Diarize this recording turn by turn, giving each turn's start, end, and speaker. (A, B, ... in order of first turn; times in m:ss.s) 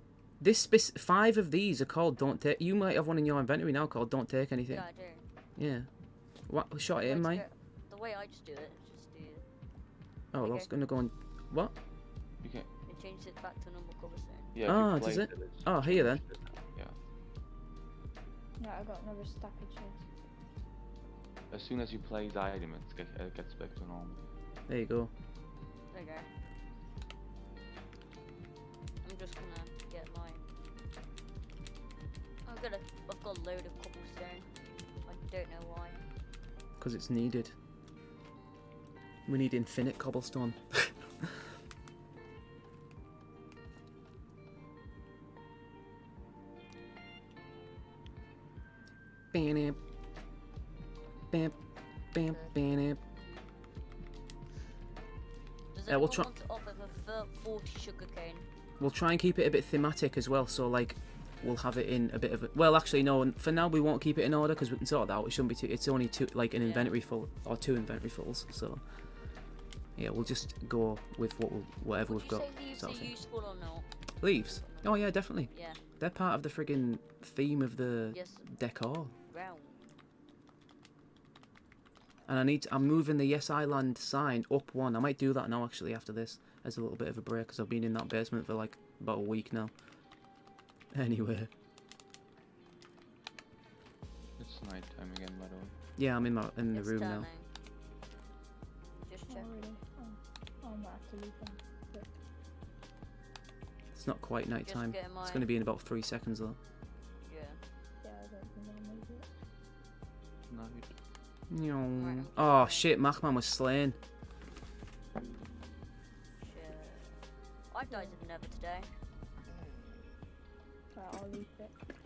0:00.4-0:04.8 A
0:04.7-0:05.2 B
0:05.6-0:05.9 A
0:06.5-0:07.4 A
0:07.0-0:09.4 B
0:10.3-0:11.7 A
0:10.4-0:10.7 B
0:12.4-0:12.7 C
0:12.9-0:14.6 B
0:14.5-0:17.0 C
0:14.7-0:16.2 A
0:18.6-0:20.1 D
0:21.5-0:24.2 C
0:24.7-0:25.1 A
0:25.9-0:26.3 B
0:29.0-0:30.4 B
0:32.4-0:34.5 B
0:35.1-0:36.0 B
0:36.8-0:37.6 A
0:39.3-0:41.3 A
0:49.3-0:49.8 A
0:51.3-0:51.6 A
0:52.1-0:53.0 A
0:52.3-0:52.5 B
0:55.7-0:58.5 B
0:55.9-0:56.3 A
0:58.8-1:08.8 A
1:06.6-1:06.9 B
1:10.0-1:13.1 A
1:11.9-1:15.8 B
1:14.2-1:19.1 A
1:18.1-1:18.5 B
1:19.3-1:19.9 B
1:22.3-1:29.7 A
1:30.9-1:31.5 A
1:34.4-1:35.8 C
1:36.0-1:37.3 A
1:36.7-1:37.5 B
1:39.1-1:39.5 B
1:39.3-1:42.1 D
1:43.9-1:46.6 A
1:44.6-1:45.5 B
1:47.2-1:47.6 B
1:48.0-1:49.3 D
1:50.5-1:50.9 C
1:51.5-1:54.0 A
1:52.0-1:52.9 B
1:56.4-1:57.1 B
1:57.7-1:58.9 B
1:57.9-1:58.2 D
2:00.9-2:01.8 D